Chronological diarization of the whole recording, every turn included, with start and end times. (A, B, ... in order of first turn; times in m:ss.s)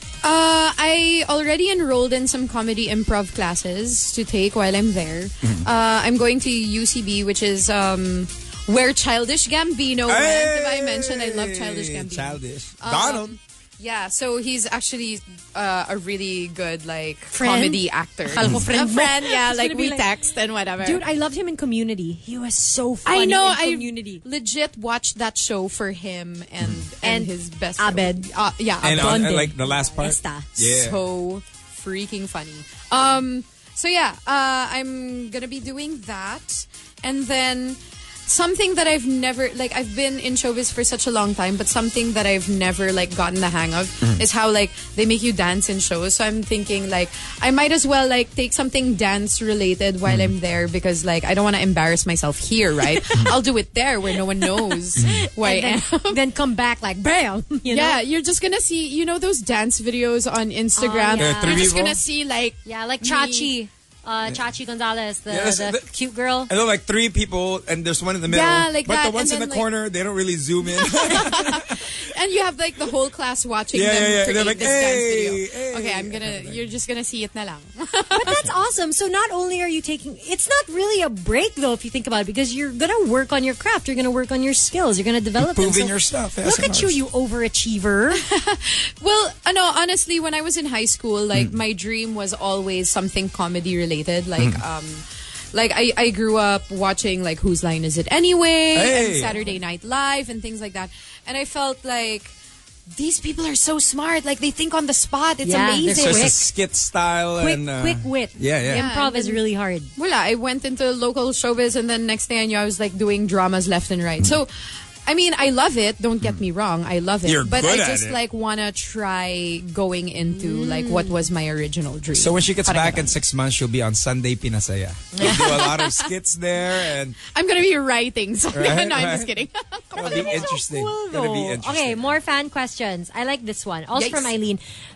0:00.2-0:21.0 A
0:05.4-0:05.7 B
0:10.1-0:13.4 B
0:17.3-0:20.1 C
0:20.8-0:24.2 C
0:23.0-0:29.7 A
0:27.0-0:28.3 C
0:28.8-0:31.0 B
0:28.8-0:30.5 C
0:30.6-0:56.2 A
0:50.1-0:50.3 B
0:54.7-0:58.0 C
0:55.0-0:55.2 B
0:57.7-1:03.5 A
1:00.8-1:01.8 C
1:01.2-1:02.0 B
1:02.6-1:06.5 C
1:05.3-1:05.9 B
1:06.5-1:12.0 B
1:08.3-1:09.7 A
1:10.7-1:18.4 A
1:13.7-1:16.6 B
1:18.1-1:28.2 C
1:25.4-1:27.0 B
1:28.1-1:42.4 A
1:38.7-1:39.4 B
1:39.3-1:39.6 C
1:42.9-1:46.4 A
1:45.4-1:46.4 C
1:45.9-1:48.9 B
1:47.4-1:49.9 C
1:48.7-1:49.4 A
1:50.0-1:54.5 A
1:55.1-2:03.1 A
1:57.2-1:58.2 B
2:00.4-2:01.2 C
2:02.1-2:07.2 B
2:05.1-2:05.6 C
2:05.2-2:06.1 A
2:07.3-2:10.5 A
2:08.5-2:09.4 B
2:10.0-2:12.2 B
2:10.0-2:14.6 C
2:14.0-2:14.3 A